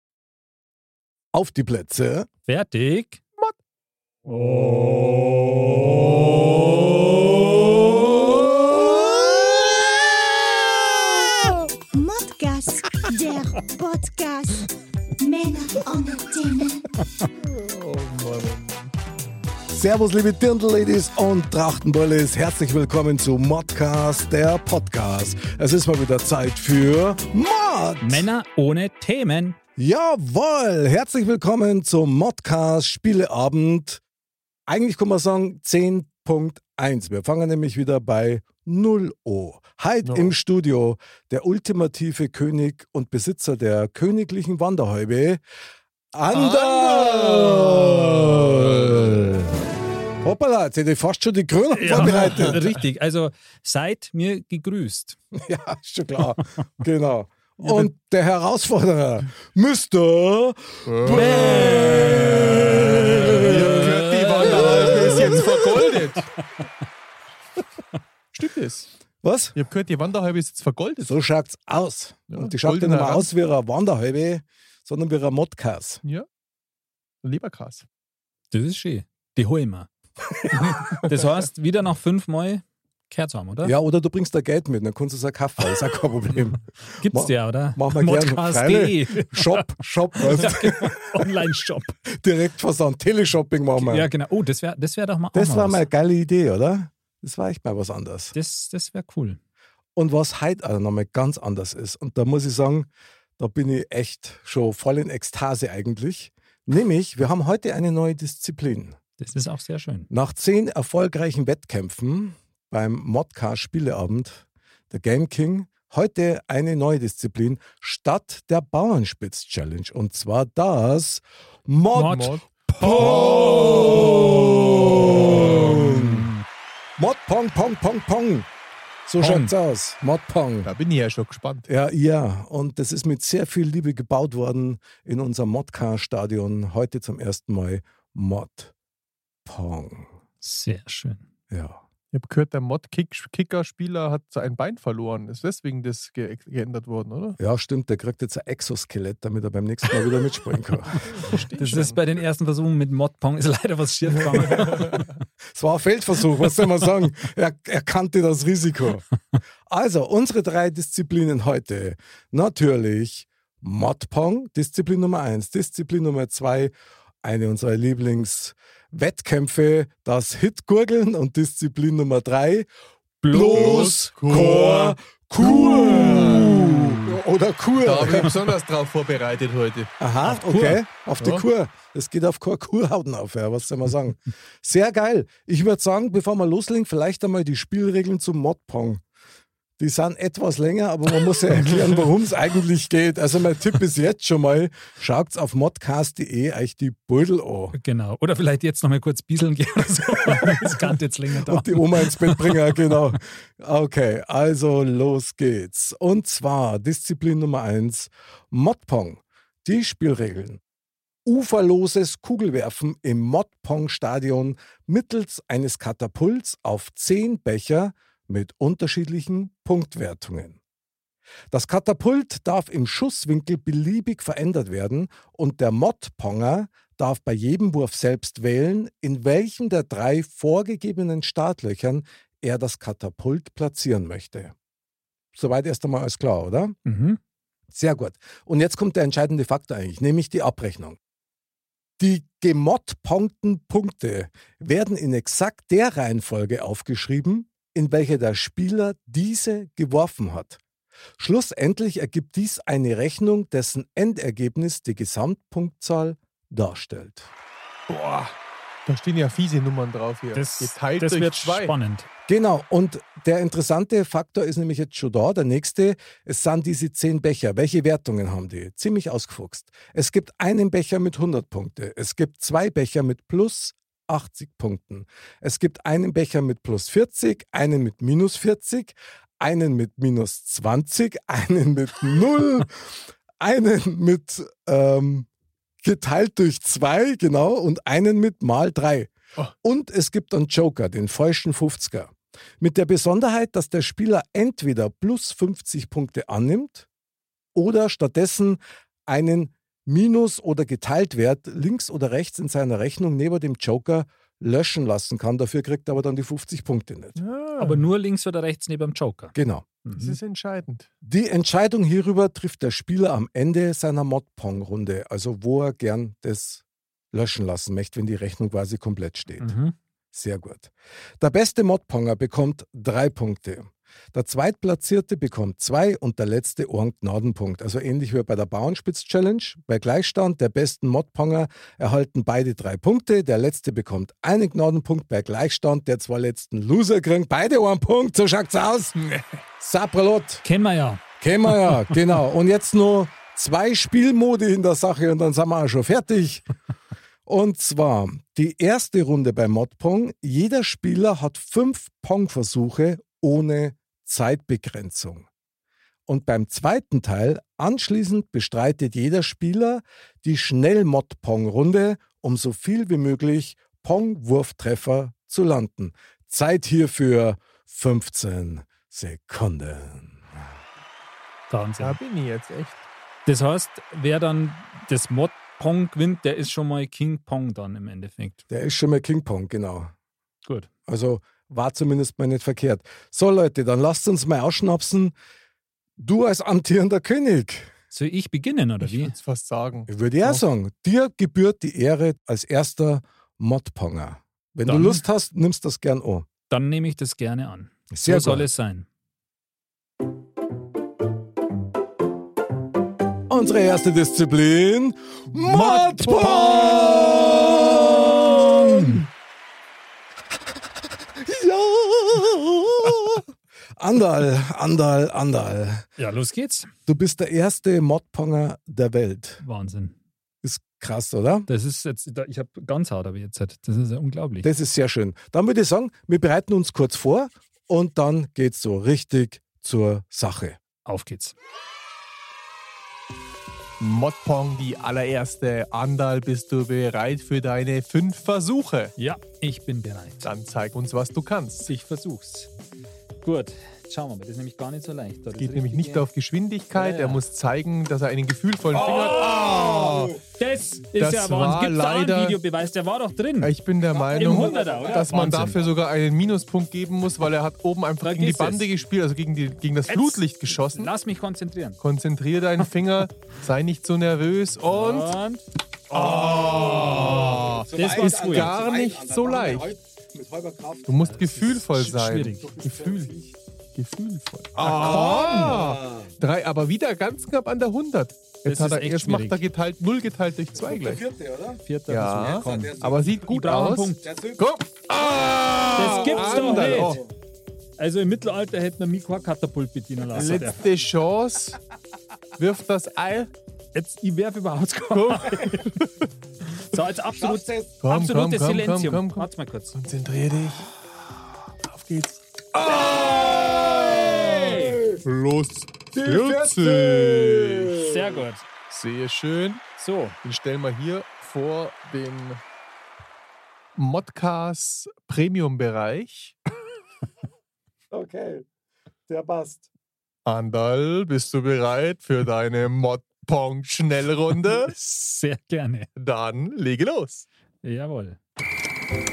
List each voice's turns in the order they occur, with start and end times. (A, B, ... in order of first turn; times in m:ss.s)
0:01.3-0:02.3 A
0:02.5-0:03.2 B
0:04.3-0:06.9 B
0:08.2-0:08.9 C
0:09.8-0:11.3 A
0:11.9-0:14.7 D
0:15.2-0:16.9 D
0:17.4-0:18.9 C
0:19.7-0:28.3 A
0:28.0-0:29.6 B
0:29.8-0:34.0 A
0:34.7-0:45.4 A
0:40.0-0:40.3 C
0:46.1-0:49.6 A
0:46.3-0:49.4 C
0:50.2-0:52.6 A
0:51.7-0:55.2 B
0:51.9-0:52.7 C
0:55.3-1:03.9 A
1:00.8-1:02.6 C
1:01.1-1:05.5 B
1:03.3-1:06.3 C
1:04.4-1:05.9 A
1:08.3-1:08.9 C
1:09.2-1:09.6 A
1:09.5-1:11.2 C
1:11.0-1:16.0 A
1:12.3-1:13.3 C
1:17.2-1:17.8 C
1:18.5-1:19.9 B
1:20.5-1:23.7 B
1:20.7-1:21.1 C
1:23.6-1:31.2 A
1:26.9-1:31.9 B
1:32.1-1:34.1 A
1:33.8-1:35.9 B
1:35.3-1:38.3 A
1:38.3-1:39.4 B
1:40.0-1:49.0 A
1:49.2-1:50.1 B
1:50.1-2:06.3 A
2:01.9-2:06.4 B
2:02.0-2:05.6 C
2:07.0-2:08.5 A
2:09.0-2:10.7 A
2:09.2-2:09.5 B
2:10.6-2:11.7 C
2:11.7-2:18.7 A
2:19.4-2:20.1 A
2:20.4-2:21.2 B
2:21.5-2:21.8 A
2:22.1-2:27.4 C
2:27.4-2:31.0 A
2:31.0-2:32.0 C
2:31.6-2:35.0 B
2:34.4-2:35.0 C
2:35.5-2:39.0 A
2:39.7-2:52.7 A
2:53.2-2:54.1 B
2:53.3-2:58.5 A
2:53.3-2:57.2 C
2:57.8-2:59.9 C
3:00.0-3:09.0 A
3:00.2-3:00.8 B
3:01.2-3:01.4 C
3:09.8-3:17.8 A
3:11.7-3:12.0 B
3:17.7-3:23.0 B
3:20.3-3:30.6 A
3:31.2-3:40.6 A
3:41.5-3:54.5 A
3:55.3-3:56.8 A
3:56.8-3:57.2 B
3:57.7-4:01.0 A
4:02.0-4:10.6 A
4:11.2-4:17.3 A
4:17.9-4:18.3 C
4:18.8-4:21.7 C
4:20.3-4:22.1 B
4:22.3-4:45.3 A
4:45.8-4:49.1 A
4:49.6-4:56.9 A
4:57.5-5:07.2 A
5:07.2-5:07.9 C
5:07.6-5:10.2 B
5:09.3-5:09.7 A
5:09.9-5:10.9 C
5:11.0-5:19.5 A
5:19.4-5:19.7 B
5:20.1-5:39.0 A
5:39.0-5:39.3 C
5:39.6-5:40.4 A
5:40.4-5:42.0 B
5:41.2-5:46.4 A
5:47.2-5:55.2 A
5:56.1-6:10.3 A
6:11.5-6:12.0 B
6:11.8-6:12.8 C
6:13.2-6:18.4 B
6:18.5-6:19.9 A
6:20.9-6:25.1 A
6:26.0-6:27.7 A
6:27.9-6:29.1 B
6:28.8-6:30.4 C
6:29.9-6:36.3 A
6:34.6-6:35.0 B
6:36.5-6:38.8 B
6:37.9-6:38.5 A
6:43.3-6:49.1 A
6:45.4-6:47.3 B
6:48.3-6:49.0 B
6:51.2-6:53.2 A
6:53.8-6:55.9 A
6:56.0-6:56.7 B
6:56.9-6:59.4 A
6:59.4-7:00.0 B
7:00.4-7:01.5 A
7:01.5-7:04.5 B
7:04.4-7:10.6 A
7:10.8-7:11.3 B
7:13.8-7:18.9 C
7:19.0-7:20.3 B
7:20.2-7:21.7 C
7:21.6-7:22.5 B
7:23.2-7:26.1 B
7:25.4-7:30.2 C
7:26.7-7:27.2 B
7:28.8-7:30.2 A
7:28.8-7:29.6 B
7:30.4-7:33.5 B
7:31.0-7:32.4 C
7:33.4-7:40.9 C
7:33.9-7:35.6 A
7:34.2-7:35.6 B
7:38.0-7:38.7 B
7:39.9-7:41.8 B
7:41.8-7:45.1 C
7:44.7-7:45.4 B
7:45.9-7:51.1 A
7:45.9-7:49.7 C
7:46.8-7:48.5 B
7:50.9-7:53.1 C
7:51.1-7:52.5 B
7:52.4-7:53.3 A
7:53.7-8:01.0 C
7:54.6-7:56.1 A
7:58.4-7:59.4 B
8:00.6-8:01.6 A
8:01.6-8:04.1 B
8:01.9-8:07.0 C
8:02.2-8:03.2 A
8:04.0-8:07.1 A
8:05.7-8:07.0 B
8:07.8-8:10.6 B
8:10.1-8:11.6 C
8:12.4-8:13.3 C
8:13.7-8:15.7 B
8:14.9-8:15.9 C
8:16.7-8:19.8 B
8:17.2-8:17.8 A
8:17.8-8:20.7 C
8:21.6-8:22.2 C
8:22.5-8:25.0 A
8:24.3-8:24.8 B
8:25.0-8:27.8 C
8:25.9-8:28.2 A
8:27.8-8:28.4 B
8:28.7-8:29.6 C
8:29.8-8:30.1 B
8:30.2-8:32.4 C
8:33.8-8:36.4 C
8:37.9-8:38.4 A
8:39.1-8:39.7 A
8:40.2-8:44.7 C
8:44.7-8:45.9 B
8:46.0-8:47.3 C
8:47.6-8:48.2 B